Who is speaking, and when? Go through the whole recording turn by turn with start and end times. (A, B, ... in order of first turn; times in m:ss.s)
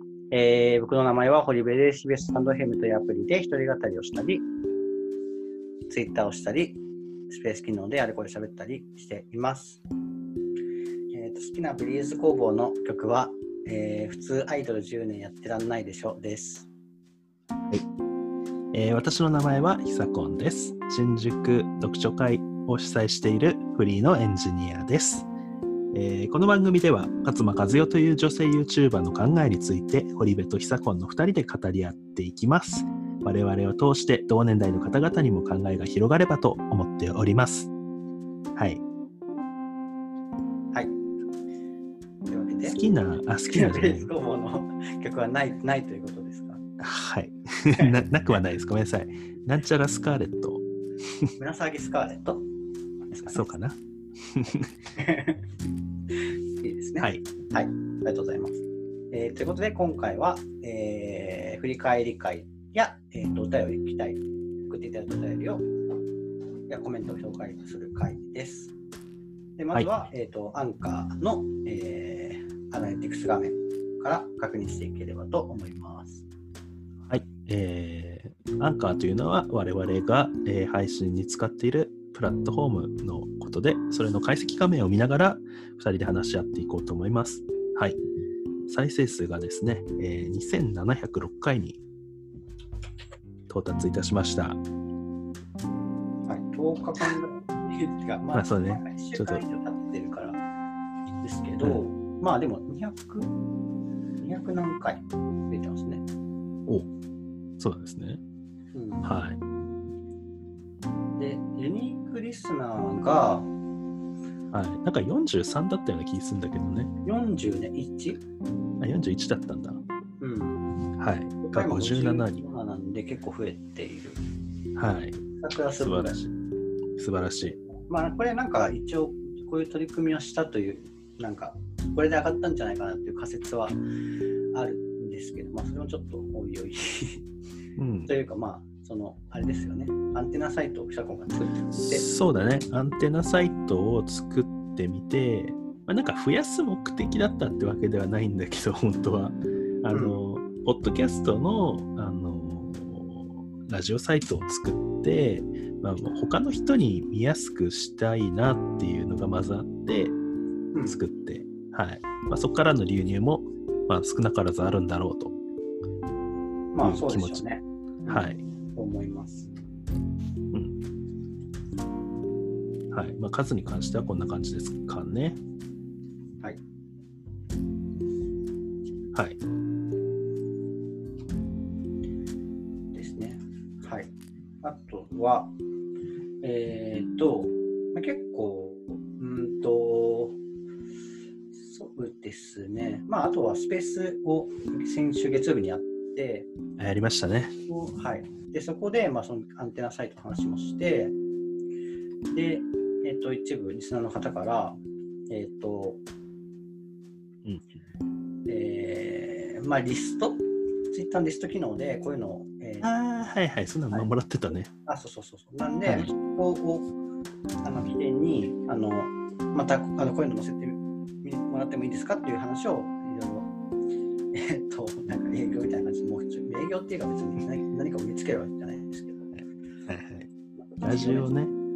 0:00.3-0:04.4 A
0:05.9-0:06.8 A
0:07.3-0:09.8 A
0:11.1-0:16.7 A
0:18.7-0:25.3 B
0:25.9-0:37.7 B
0:38.6-0:38.8 B
0:42.2-0:42.8 A
0:42.6-0:44.1 B
0:43.5-0:46.6 A
0:46.8-0:50.6 B
0:51.4-0:52.4 A
0:53.1-0:53.5 A
0:53.3-0:53.8 B
0:54.3-0:54.7 B
0:55.0-0:55.4 A
0:56.2-1:05.7 A
1:06.7-1:08.7 A
1:09.6-1:16.2 A
1:09.7-1:10.1 B
1:17.1-1:28.0 B
1:28.7-1:31.8 B
1:33.5-1:34.6 B
1:36.2-1:40.4 A
1:38.3-1:39.4 B
1:41.2-1:43.3 A
1:44.2-1:46.0 A
1:47.6-1:48.2 B
1:48.7-1:49.1 A
1:49.0-1:49.4 B
1:51.2-1:53.5 A
1:54.5-1:56.9 B
1:57.0-1:58.2 A
1:58.8-1:59.8 B
2:00.2-2:00.6 A
2:01.0-2:02.4 B
2:01.4-2:04.2 A
2:04.8-2:05.2 B
2:05.4-2:06.2 A
2:05.8-2:06.3 B
2:07.0-2:07.6 B
2:07.4-2:13.8 A
2:14.5-2:17.2 A
2:17.8-2:18.1 B
2:18.1-2:22.0 A
2:21.7-2:40.1 B
2:29.9-2:30.2 A
2:40.8-2:45.4 B
2:46.7-2:48.2 A
2:46.8-2:47.4 B
2:48.0-2:48.4 B
2:48.8-2:49.5 A
2:52.9-2:55.4 B
2:59.1-2:59.4 B
3:02.9-3:04.1 A
3:04.6-3:05.5 A
3:06.4-3:10.4 A
3:11.5-3:16.5 A
3:16.8-3:17.5 B
3:17.7-3:21.2 A
3:22.3-3:24.8 A
3:25.3-3:26.0 A
3:28.5-3:32.9 A
3:32.8-3:34.7 B
3:34.8-3:36.9 A
3:35.8-3:36.1 B
3:37.6-3:43.5 A
3:44.3-3:49.4 A
3:49.4-3:50.3 B
3:50.6-3:51.3 A
3:50.8-3:51.5 B